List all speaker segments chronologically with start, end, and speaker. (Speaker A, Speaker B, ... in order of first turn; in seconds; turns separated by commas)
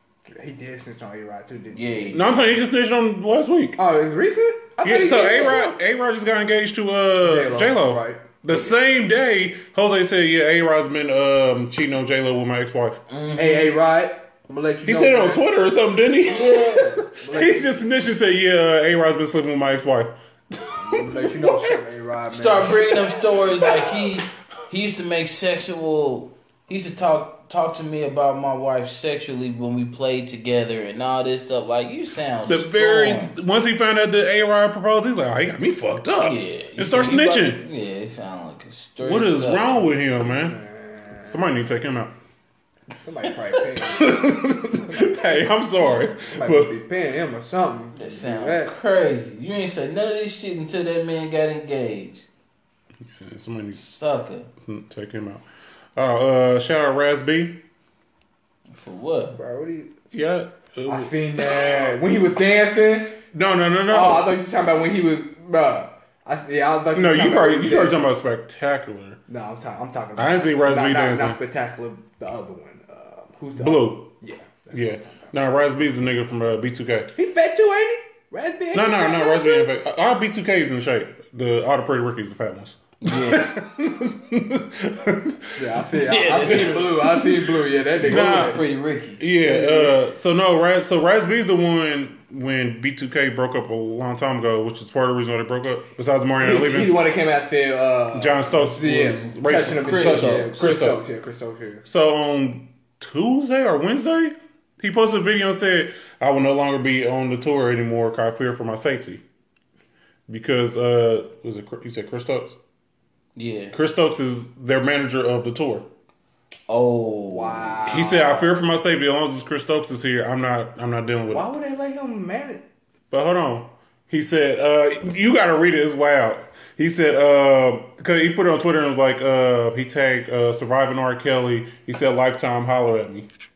Speaker A: 0.3-2.2, Speaker B: 1.7-2.3, Speaker C: 2.1-3.8, Speaker A: 3.8-5.8, Speaker C: 4.8-13.0, Speaker A: 7.2-8.6, Speaker B: 13.1-13.8, Speaker A: 13.4-15.4, Speaker C: 14.9-21.8, Speaker B: 16.3-17.0, Speaker A: 16.5-17.7, Speaker A: 20.8-23.8, Speaker B: 22.3-33.4, Speaker C: 32.5-37.6, Speaker B: 36.2-39.8, Speaker C: 39.0-40.6, Speaker A: 40.2-41.4, Speaker C: 41.2-42.1, Speaker A: 43.0-48.7, Speaker C: 43.9-46.8, Speaker B: 48.0-52.3, Speaker C: 53.2-53.8, Speaker B: 53.8-54.5, Speaker C: 54.6-55.4, Speaker C: 56.0-57.6, Speaker B: 58.7-59.4, Speaker A: 59.3-59.9, Speaker C: 60.1-61.1, Speaker A: 60.9-63.2, Speaker C: 63.3-64.3, Speaker A: 63.9-68.0, Speaker C: 66.9-69.2, Speaker A: 69.3-75.4, Speaker C: 70.2-71.4, Speaker C: 73.6-74.1, Speaker C: 74.7-77.1, Speaker A: 77.2-79.7, Speaker C: 78.7-85.7, Speaker B: 83.0-83.5, Speaker A: 85.6-88.6, Speaker B: 86.0-87.2, Speaker C: 86.5-86.8, Speaker C: 88.0-88.6, Speaker B: 88.0-89.2, Speaker C: 89.2-97.0, Speaker A: 89.4-90.0, Speaker A: 96.4-101.8, Speaker C: 98.1-101.0, Speaker B: 99.7-100.6, Speaker C: 101.9-109.2, Speaker C: 110.3-112.6, Speaker B: 113.4-113.8, Speaker C: 113.7-115.9, Speaker B: 116.7-118.0, Speaker A: 117.3-118.5, Speaker C: 117.9-121.5, Speaker A: 121.3-122.6, Speaker C: 123.1-133.3